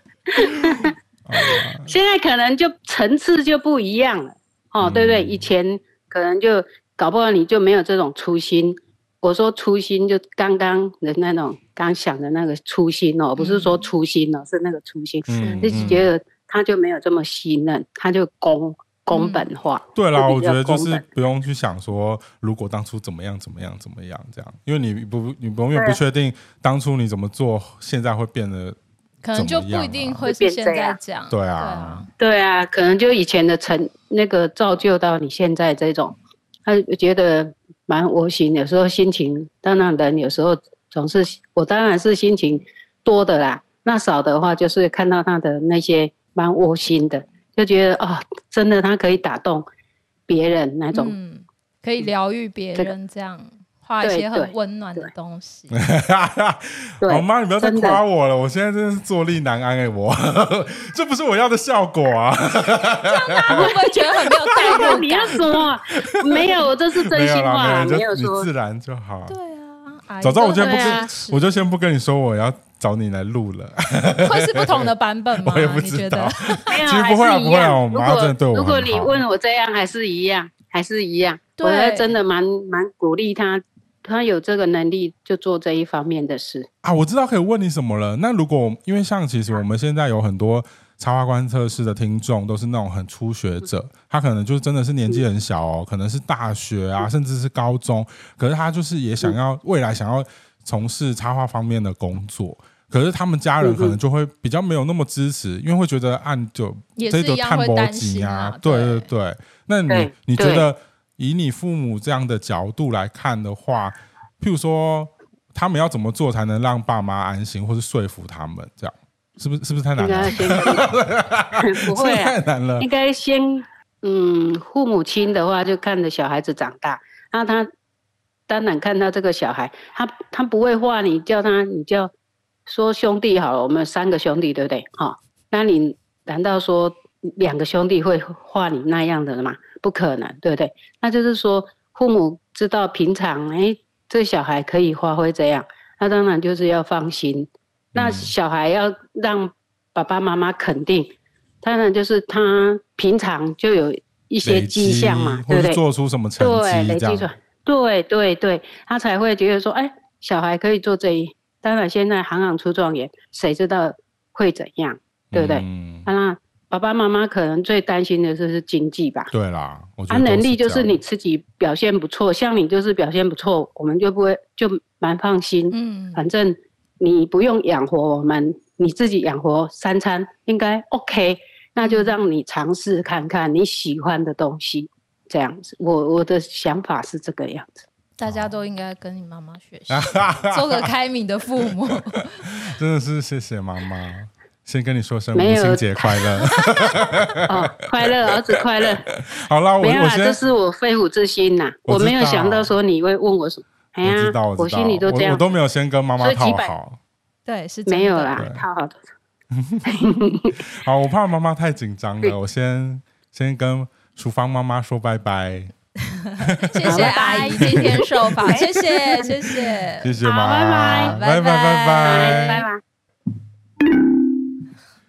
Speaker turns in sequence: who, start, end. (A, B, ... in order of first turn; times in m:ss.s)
0:00.3-0:21.0 A
0:00.4-0:01.9 B
0:04.8-0:05.5 B
0:13.4-0:13.8 C
0:15.3-0:16.1 B
0:19.1-0:19.5 C
0:19.9-0:28.8 B
0:29.2-0:32.1 C
0:29.3-0:30.3 B
0:30.2-0:31.0 A
0:31.3-0:32.0 B
0:32.2-0:49.6 A
0:50.3-0:51.1 A
0:50.9-0:55.8 C
0:54.0-0:55.1 A
0:55.7-1:03.7 B
0:57.0-0:58.0 A
1:03.0-1:05.6 C
1:03.5-1:08.5 A
1:04.5-1:04.9 B
1:05.9-1:09.4 B
1:09.3-1:11.6 C
1:10.2-1:19.2 B
1:10.6-1:11.1 A
1:14.2-1:16.8 C
1:16.7-1:26.7 A
1:21.6-1:22.1 C
1:26.8-2:02.9 B
1:43.6-1:44.0 A
1:47.0-1:49.1 C
1:49.9-1:50.7 A
2:00.0-2:00.9 A
2:01.6-2:07.7 A
2:08.5-2:12.1 A
2:12.7-2:35.8 A
2:27.9-2:28.3 B
2:34.4-2:37.3 B
2:36.4-2:49.3 A
2:45.3-2:46.1 B
2:49.3-2:51.0 B
2:50.1-3:07.8 A
2:55.7-2:56.2 C
3:01.8-3:02.1 C
3:08.2-3:12.5 C
3:09.9-3:10.9 B
3:11.6-3:20.4 B
3:15.3-3:16.2 A
3:16.4-3:17.2 C
3:17.4-3:19.1 A
3:19.8-3:25.4 A
3:21.9-3:22.7 B
3:24.0-3:27.0 B
3:26.2-3:26.7 A
3:27.4-3:28.4 C
3:27.9-3:29.0 A
3:28.4-3:28.6 B
3:29.5-3:35.7 B
3:29.9-3:30.6 A
3:36.2-3:40.2 C
3:36.4-3:38.0 B
3:36.9-3:39.3 A
3:40.0-3:42.6 B
3:40.2-3:41.2 A
3:40.8-3:42.7 C
3:42.0-3:42.8 A